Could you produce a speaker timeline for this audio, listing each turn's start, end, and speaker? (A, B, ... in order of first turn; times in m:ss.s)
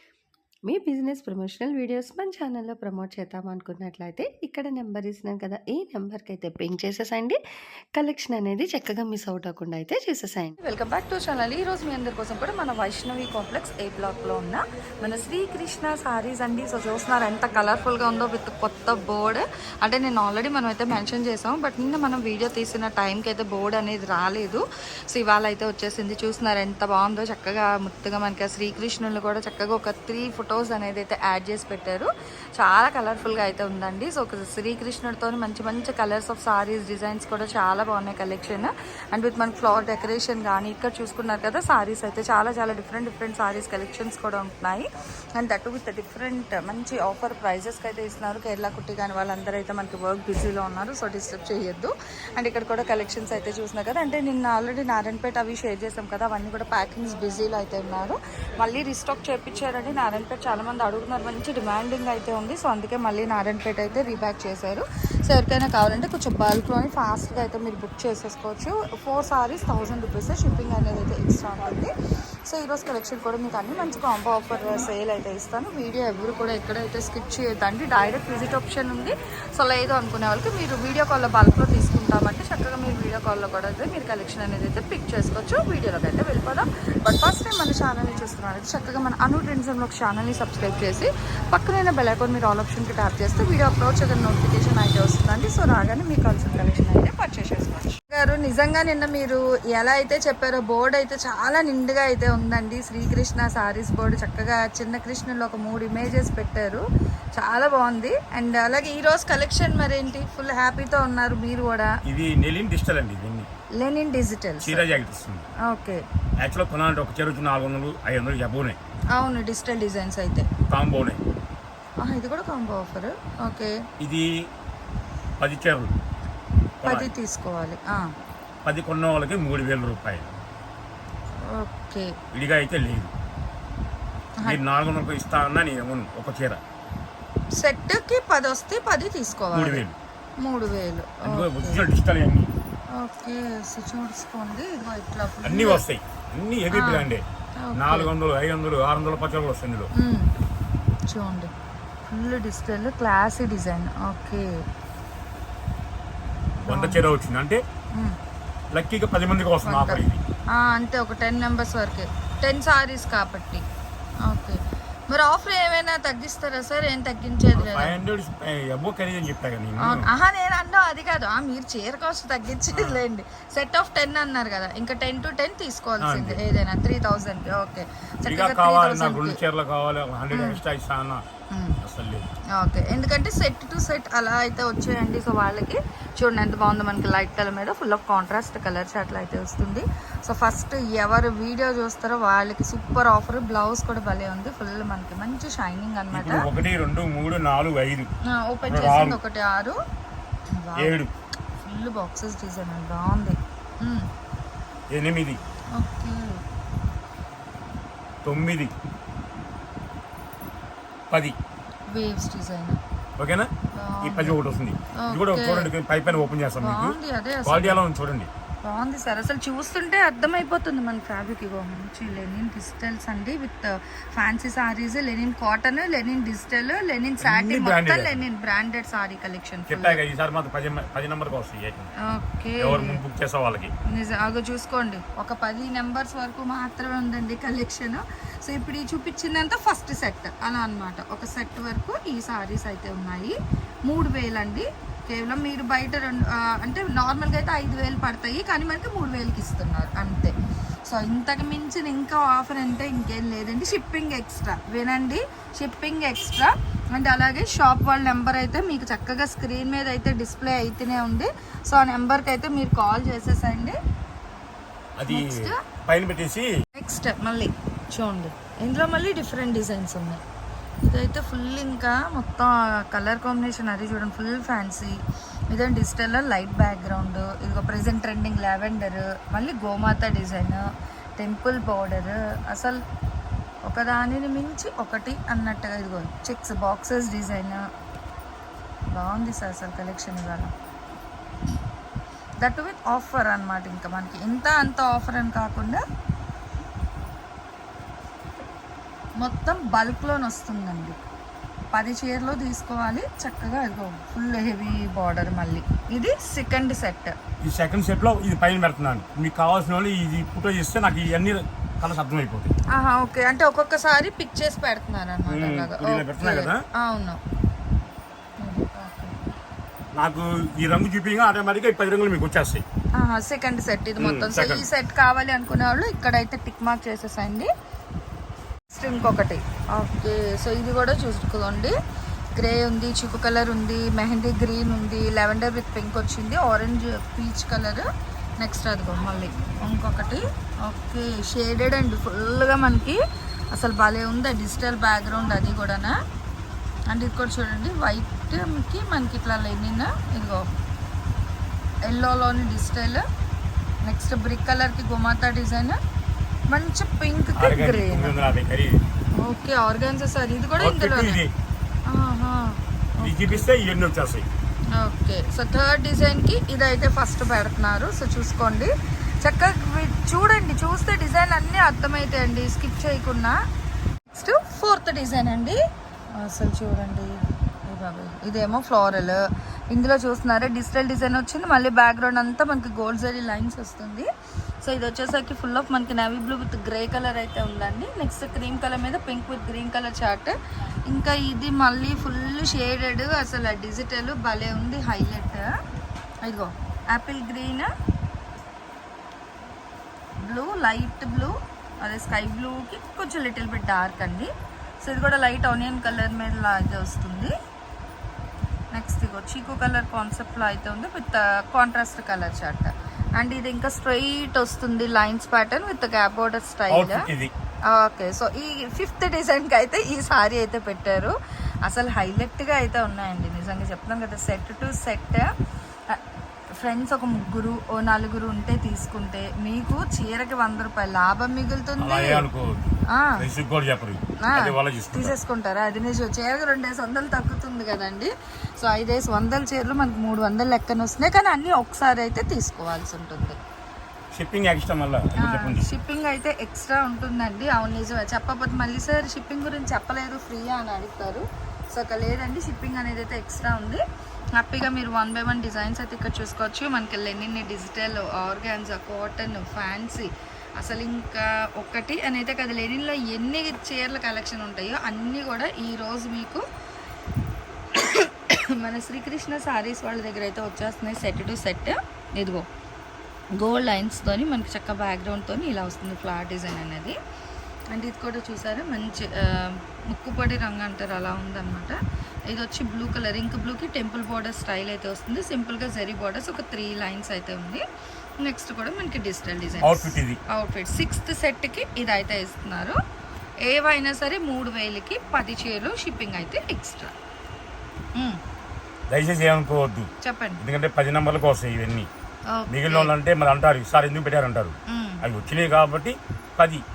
0:00.7-0:07.4 A
0:08.0-0:10.5 A
0:10.6-0:44.9 B
0:45.4-1:11.9 B
1:12.5-1:46.8 B
1:47.4-1:51.9 B
1:52.0-1:53.5 C
1:53.8-1:54.9 B
1:54.6-1:55.5 C
1:55.7-1:56.0 B
1:56.4-1:58.8 C
1:59.1-2:00.5 B
2:00.7-2:01.2 C
2:02.0-2:03.7 B
2:04.0-2:04.2 C
2:05.4-2:05.9 C
2:06.8-2:07.1 C
2:06.8-2:08.1 B
2:08.6-2:10.3 C
2:11.5-2:12.1 B
2:12.3-2:13.1 C
2:14.4-2:16.6 C
2:17.6-2:19.8 B
2:19.5-2:20.0 C
2:20.4-2:21.8 B
2:21.2-2:22.5 C
2:23.0-2:25.8 B
2:25.4-2:27.2 C
2:26.7-2:27.1 B
2:27.6-2:28.1 B
2:27.8-2:29.9 C
2:30.0-2:30.3 B
2:31.1-2:31.5 B
2:32.1-2:34.5 B
2:36.6-2:37.0 B
2:36.7-2:37.6 C
2:38.7-2:40.2 C
2:39.6-2:43.6 B
2:44.3-2:48.0 B
2:47.5-2:50.1 C
2:49.8-2:59.4 B
2:52.7-2:53.0 C
2:56.0-2:56.4 C
2:58.2-3:01.2 C
3:00.3-3:00.6 B
3:01.5-3:01.8 B
3:01.8-3:02.3 C
3:02.6-3:16.5 B
3:16.1-3:18.1 C
3:18.3-3:19.8 B
3:18.6-3:19.2 C
3:20.6-3:21.0 B
3:20.8-3:21.1 C
3:21.6-3:24.1 B
3:24.9-3:25.4 C
3:25.8-3:26.4 B
3:28.2-3:28.7 C
3:31.1-3:31.4 C
3:31.9-3:32.8 B
3:33.2-3:33.5 C
3:33.8-3:34.4 B
3:34.0-3:38.3 C
3:35.0-3:35.7 B
3:36.6-3:37.8 B
3:38.6-3:50.0 B
3:47.2-3:48.2 C
3:49.7-3:51.9 C
3:52.0-3:53.0 B
3:52.6-3:53.7 C
3:53.9-4:10.3 B
4:10.9-4:23.8 B
4:25.0-4:26.5 C
4:25.1-4:25.6 B
4:26.7-4:30.2 B
4:30.8-4:35.0 B
4:35.5-4:40.6 B
4:41.2-4:42.8 B
4:43.6-4:47.6 B
4:48.9-4:50.5 B
4:52.4-4:55.8 B
4:59.2-5:01.0 B
5:01.7-5:07.1 B
5:07.4-5:12.5 C
5:12.7-5:17.2 B
5:15.3-5:16.6 C
5:18.4-5:19.1 B
5:20.0-5:22.6 C
5:23.0-5:27.5 B
5:24.0-5:24.7 C
5:28.7-5:31.7 B
5:32.4-5:37.9 B
5:38.4-5:43.0 B
5:43.5-5:46.0 B
5:46.9-5:50.5 B
5:51.8-5:53.0 B
5:53.8-5:55.8 B
5:56.5-5:58.2 B
5:57.4-5:58.8 C
5:59.2-6:01.2 B
6:00.6-6:01.3 C
6:01.9-6:03.5 B
6:03.0-6:04.3 C
6:04.8-6:08.7 B
6:09.2-6:13.3 B
6:14.1-6:15.6 B
6:16.2-6:24.1 B
6:24.6-6:30.4 B
6:30.9-6:35.5 B
6:36.2-6:37.7 B
6:40.2-6:44.3 B
6:44.8-6:47.3 B
6:48.7-6:57.0 B
6:56.7-6:57.3 C
6:57.7-7:01.1 B
7:01.6-7:05.2 B
7:06.6-7:12.2 B
7:11.8-7:15.2 C
7:12.9-7:13.2 B
7:14.2-7:23.4 B
7:24.1-7:25.7 C
7:25.2-7:33.8 B
7:34.4-7:46.4 B
7:47.7-7:52.5 B
7:53.3-7:57.0 B
7:57.7-8:07.6 B
8:08.2-8:12.8 B
8:09.6-8:10.2 C
8:13.4-8:16.9 B
8:18.9-8:19.9 C
8:20.0-8:20.4 B
8:20.4-8:21.9 C
8:22.3-8:22.9 B
8:22.5-8:26.6 C
8:24.7-8:25.0 B